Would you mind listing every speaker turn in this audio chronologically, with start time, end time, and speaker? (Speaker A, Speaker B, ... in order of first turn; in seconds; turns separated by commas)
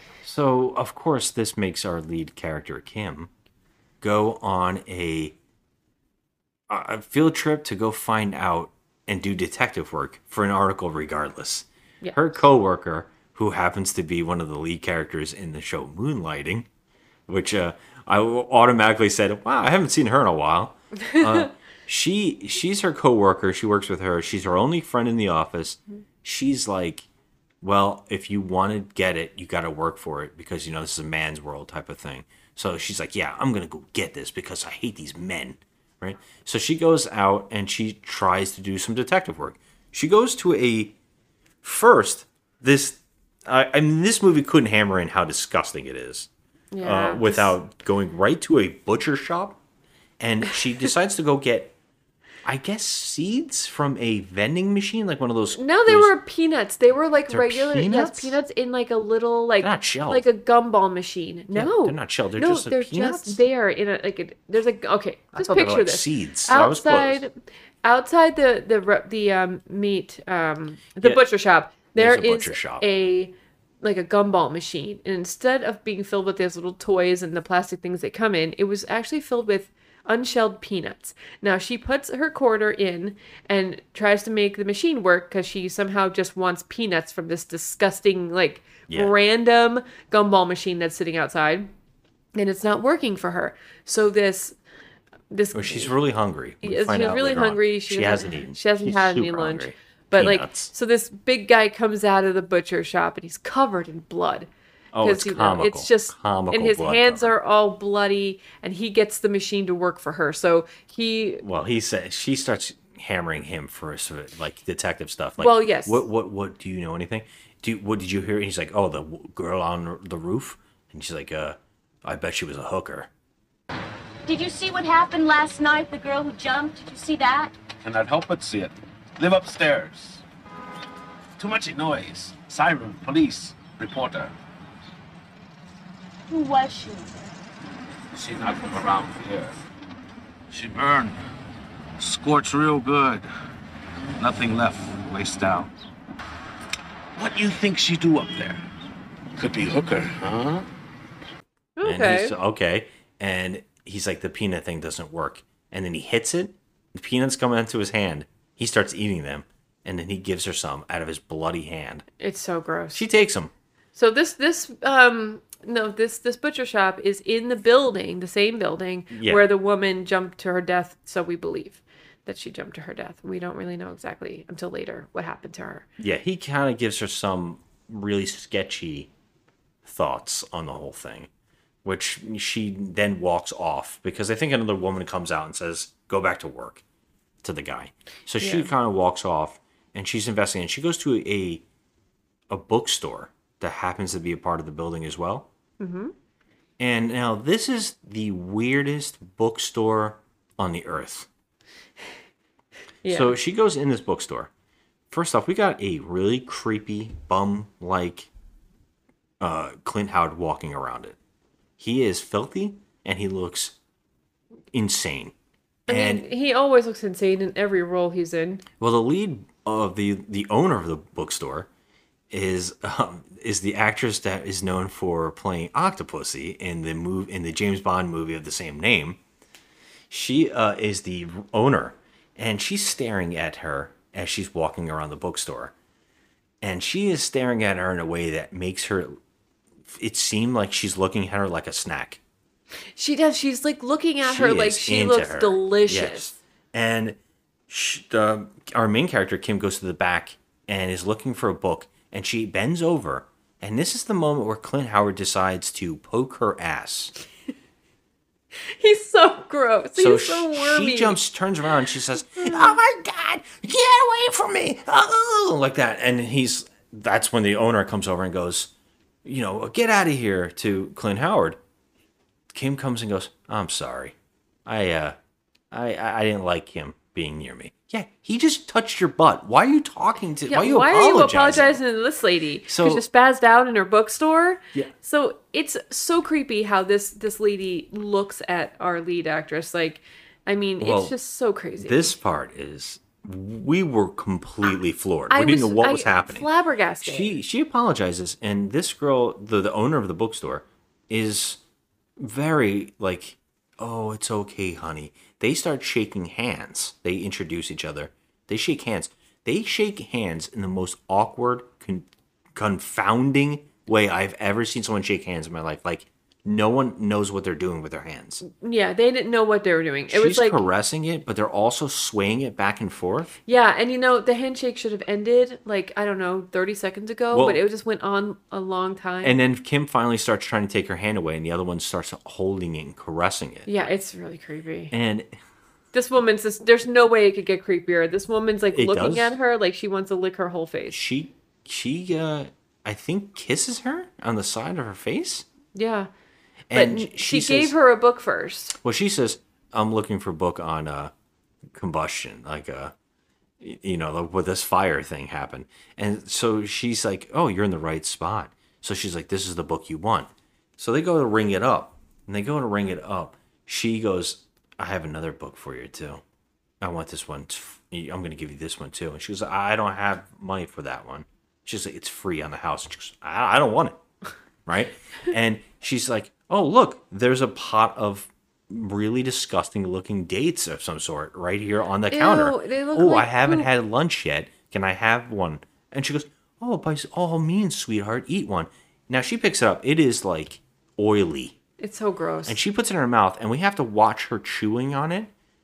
Speaker A: 0.2-3.3, Speaker A: 4.0-5.3, Speaker A: 6.7-16.7, Speaker B: 12.0-12.4, Speaker A: 17.3-27.1, Speaker B: 21.1-21.5, Speaker A: 27.6-41.0, Speaker A: 41.6-46.3, Speaker B: 46.7-47.5, Speaker A: 46.8-49.6, Speaker A: 50.2-51.7, Speaker A: 52.5-56.1, Speaker B: 55.6-91.7, Speaker A: 57.3-58.4, Speaker A: 59.6-60.2, Speaker A: 61.5-63.4, Speaker A: 65.3-67.2, Speaker A: 72.0-72.8, Speaker B: 92.3-94.6, Speaker B: 95.3-96.0, Speaker A: 95.5-100.7, Speaker B: 96.6-111.4, Speaker A: 104.9-107.3, Speaker A: 111.4-123.1, Speaker B: 115.4-116.0, Speaker C: 124.2-127.5, Speaker D: 131.4-131.9, Speaker D: 132.5-133.2, Speaker D: 133.8-134.2, Speaker C: 136.3-137.3, Speaker D: 138.4-139.3, Speaker D: 147.2-148.5, Speaker D: 149.4-150.5, Speaker B: 151.8-152.3, Speaker A: 151.8-162.1, Speaker B: 162.2-163.0, Speaker A: 162.9-163.5, Speaker B: 163.9-175.9, Speaker A: 169.1-169.5, Speaker A: 176.0-179.1, Speaker A: 179.8-181.3, Speaker A: 181.8-186.8, Speaker A: 187.4-191.6, Speaker B: 188.4-188.7, Speaker A: 192.5-195.5, Speaker B: 195.8-196.1, Speaker A: 196.8-201.3, Speaker B: 203.0-203.3, Speaker A: 203.1-204.5, Speaker A: 205.1-208.3, Speaker A: 209.4-211.2, Speaker A: 211.8-213.8, Speaker A: 214.7-215.3, Speaker A: 215.9-216.3, Speaker B: 215.9-218.7, Speaker A: 218.8-221.7, Speaker A: 222.3-229.2, Speaker A: 230.1-235.7, Speaker A: 236.6-239.2, Speaker A: 239.9-242.2, Speaker B: 242.9-246.4, Speaker A: 244.2-247.2, Speaker A: 247.7-257.1, Speaker B: 258.6-261.2, Speaker A: 260.0-268.7, Speaker B: 262.4-262.8, Speaker A: 269.2-271.6, Speaker A: 272.5-274.1, Speaker A: 274.7-275.2, Speaker A: 275.7-281.8, Speaker B: 280.5-292.1, Speaker A: 282.7-283.0, Speaker A: 290.8-291.1, Speaker A: 291.8-296.5, Speaker B: 295.3-297.3, Speaker A: 297.0-301.6, Speaker A: 302.2-318.4, Speaker B: 318.4-320.6, Speaker A: 320.1-323.3, Speaker B: 323.5-329.4, Speaker A: 327.3-327.6, Speaker A: 329.2-333.7, Speaker B: 333.7-334.9, Speaker A: 334.9-335.4, Speaker B: 335.9-341.0, Speaker A: 338.7-339.3, Speaker A: 340.9-345.5, Speaker B: 345.7-346.1, Speaker A: 346.7-347.7, Speaker B: 346.7-348.8, Speaker A: 348.8-351.1, Speaker A: 351.7-352.9, Speaker A: 353.6-366.2, Speaker A: 366.8-374.0, Speaker A: 374.7-391.6, Speaker B: 382.1-383.7, Speaker B: 391.8-392.6, Speaker A: 392.5-395.3